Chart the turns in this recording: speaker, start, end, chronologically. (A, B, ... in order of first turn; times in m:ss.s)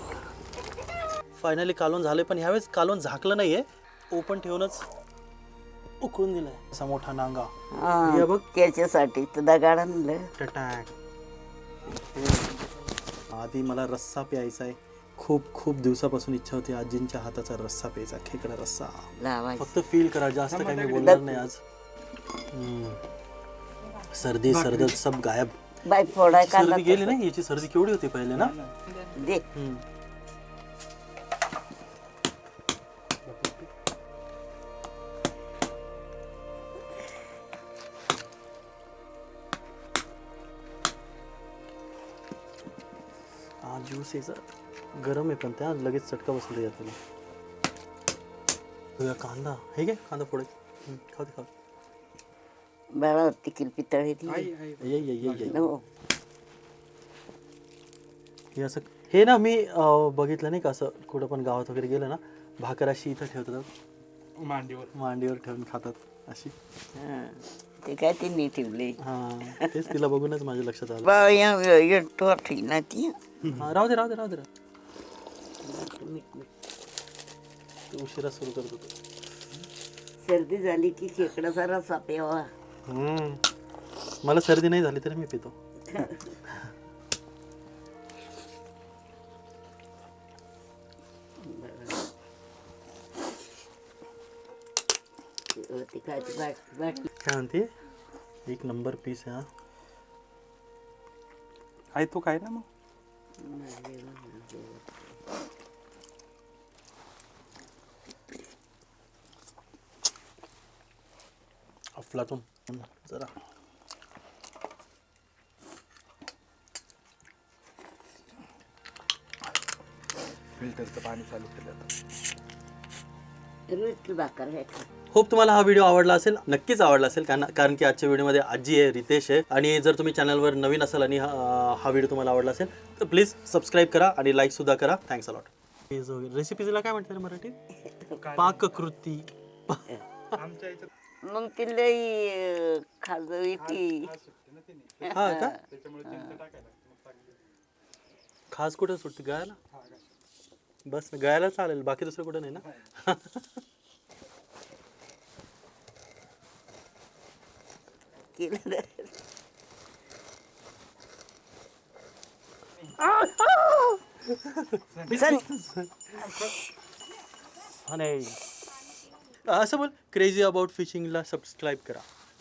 0:01.4-0:04.8 A
0:06.0-0:07.5 A
0:07.7-0:10.3 B
0:08.0-0:08.3 A
0:10.4-0:10.9 A
0:12.1-0:12.6 A
0:13.3-0:21.6 A
0:19.2-0:19.7 B
0:20.5-0:21.2 C
0:21.0-0:21.4 B
0:22.5-0:23.0 A
0:24.0-0:25.6 A
0:25.8-0:27.2 B
0:26.3-0:28.6 A
0:28.4-0:28.8 C
0:29.1-0:29.4 B
0:29.5-0:29.8 A
0:33.4-0:33.6 A
0:43.6-0:44.5 A
0:45.0-0:47.0 A
0:49.0-0:51.5 A
0:53.0-0:54.5 B
0:54.3-0:55.5 C
0:54.8-0:55.7 A
0:55.4-0:55.8 B
0:58.6-1:03.7 A
1:04.4-1:04.9 C
1:04.9-1:06.5 A
1:07.0-1:09.9 B
1:09.0-1:11.1 A
1:11.0-1:13.2 B
1:13.4-1:14.4 A
1:15.6-1:16.5 B
1:17.9-1:18.9 A
1:20.2-1:22.5 B
1:22.9-1:23.4 A
1:24.2-1:25.5 A
1:25.9-1:26.2 B
1:31.4-1:32.1 B
1:35.5-1:37.1 B
1:37.2-1:37.7 A
1:38.5-1:39.5 A
1:41.9-1:42.7 C
1:43.4-1:45.1 B
1:52.0-1:53.3 A
2:00.6-2:01.9 C
2:03.7-2:04.9 B
2:05.1-2:17.6 A
2:18.1-2:18.6 C
2:18.3-2:20.4 A
2:20.4-2:20.9 C
2:21.2-2:24.2 B
2:23.7-2:27.4 C
2:25.0-2:26.4 B
2:25.1-2:25.6 A
2:28.5-2:29.6 A
2:30.9-2:33.4 A
2:38.3-2:39.1 B
2:42.9-2:46.2 A
2:45.0-2:45.2 C
2:45.1-2:45.5 B
2:46.2-2:46.7 B
2:47.8-2:48.4 A
2:49.5-2:52.1 A